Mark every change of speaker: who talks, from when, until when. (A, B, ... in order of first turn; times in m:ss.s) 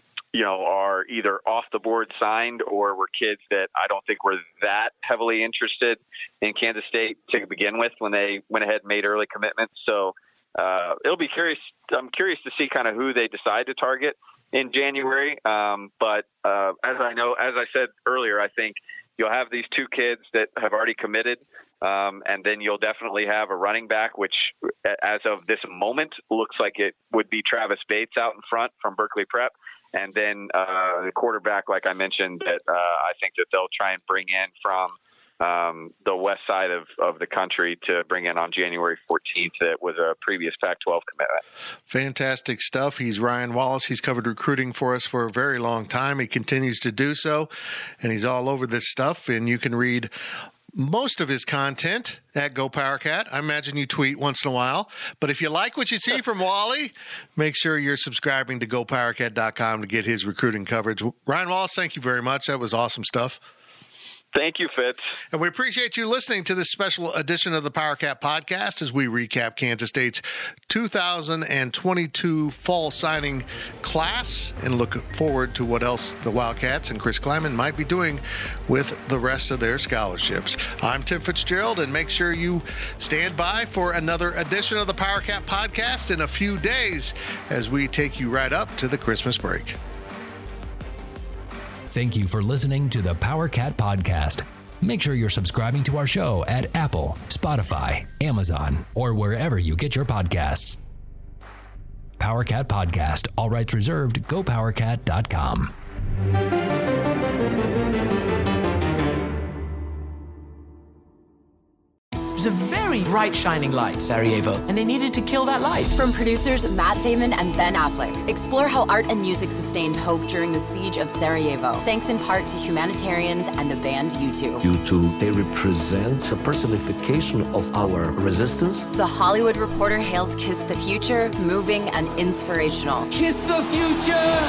0:00.3-0:41.4 A
0:41.9-0:47.5 B
0:48.0-0:50.1 B
0:50.7-1:03.4 B
1:04.3-1:05.0 A
1:05.3-1:29.8 B
1:31.9-1:40.8 C
1:42.2-1:45.7 C
1:52.4-1:56.0 D
1:56.0-2:04.6 E
2:04.6-2:08.9 F
2:08.9-2:13.1 E